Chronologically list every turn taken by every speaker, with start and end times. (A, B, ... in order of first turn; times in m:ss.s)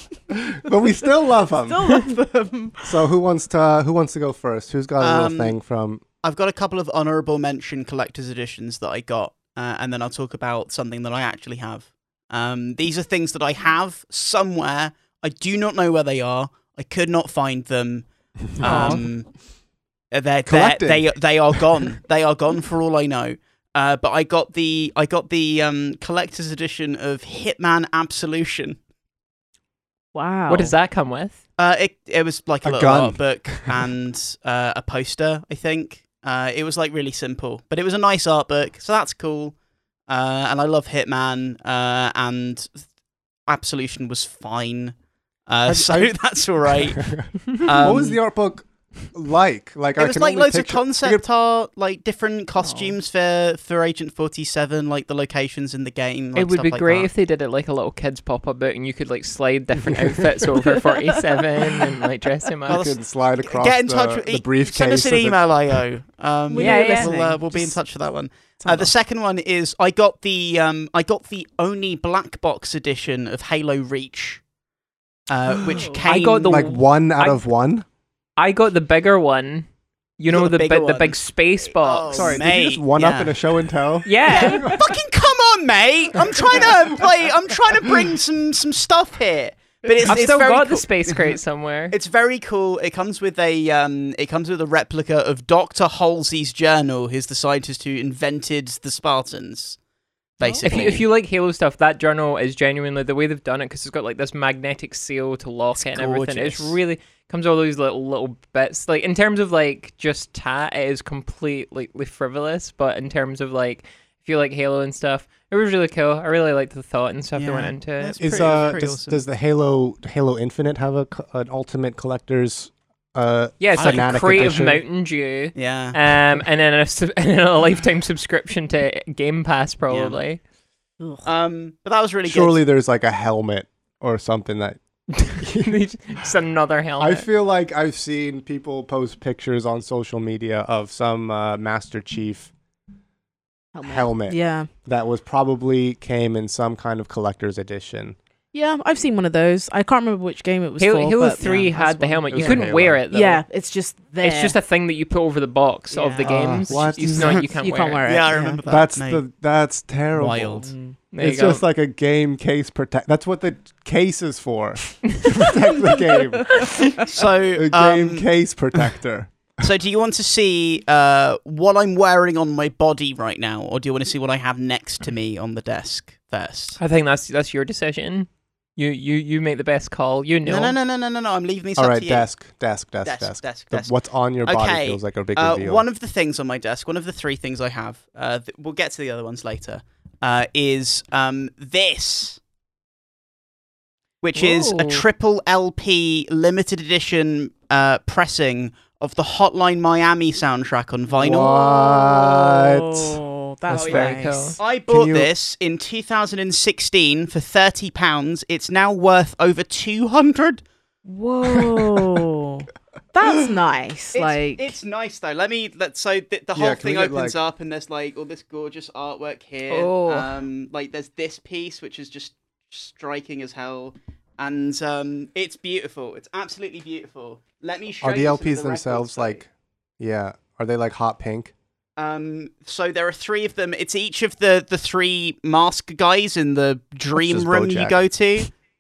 0:00.3-0:01.9 A
0:01.7-0:02.9 B
0:02.8-0:06.0 A
0:05.0-0:05.6 C
0:06.2-0:19.4 C
0:18.6-0:19.0 B
0:18.6-0:19.0 D
0:20.1-0:28.8 C
0:20.5-0:21.8 A
0:30.1-0:30.7 B
0:30.5-0:31.4 D
0:31.6-0:42.9 C
0:32.6-0:33.8 A
0:43.5-0:45.0 C
0:45.5-0:48.2 C
0:45.6-0:51.2 A
0:50.0-0:57.1 C
0:52.6-0:53.0 B
0:56.4-1:02.8 D
1:00.6-1:01.8 B
1:02.7-1:05.8 A
1:02.7-1:14.4 C
1:06.5-1:07.8 B
1:06.6-1:07.2 D
1:08.6-1:08.9 B
1:15.3-1:16.7 C
1:15.8-1:16.1 B
1:16.0-1:17.4 D
1:16.4-1:17.8 A
1:18.4-1:19.7 D
1:20.2-1:22.4 D
1:20.3-1:23.3 C
1:22.1-1:24.8 A
1:24.0-1:24.7 D
1:24.3-1:31.2 C
1:24.3-1:24.8 B
1:30.1-1:32.0 D
1:31.9-1:39.8 C
1:40.4-1:41.0 C
1:40.4-1:40.9 B
1:40.6-1:58.8 D
1:45.8-1:46.8 C
1:57.4-1:59.2 C
1:58.2-2:04.8 A
2:03.6-2:10.4 D
2:03.8-2:04.1 C
2:05.6-2:06.0 C
2:09.9-2:10.2 C
2:11.0-2:11.2 B
2:11.2-2:12.6 C
2:12.3-2:15.8 A
2:15.2-2:17.3 D
2:17.0-2:22.5 A
2:23.7-2:24.7 B
2:23.8-2:28.2 A
2:28.5-2:34.6 B
2:30.8-2:33.4 D
2:32.3-2:33.0 A
2:34.2-2:38.0 D
2:35.9-2:38.6 B
2:36.2-2:37.4 A
2:37.0-2:37.4 C
2:38.0-2:39.2 C
2:38.7-2:46.8 A
2:40.2-2:40.7 C
2:40.6-2:41.0 B
2:41.1-2:41.6 D
2:46.0-2:46.9 B
2:47.0-2:48.8 C
2:47.6-2:49.3 A
2:49.6-2:56.8 C
2:56.8-3:00.8 D
3:00.5-3:02.3 C
3:01.8-3:05.8 A
3:03.0-3:12.4 C
3:14.2-3:21.5 C
3:14.4-3:15.1 D
3:21.2-3:24.2 A
3:21.2-3:24.6 B
3:23.9-3:24.6 D
3:24.6-3:30.6 C
3:24.9-3:25.3 A
3:31.0-3:34.7 B
3:34.1-3:49.4 C
3:36.6-3:37.4 A
3:39.7-3:40.2 D
3:48.0-3:51.5 A
3:52.0-3:58.5 C
3:57.2-3:58.0 A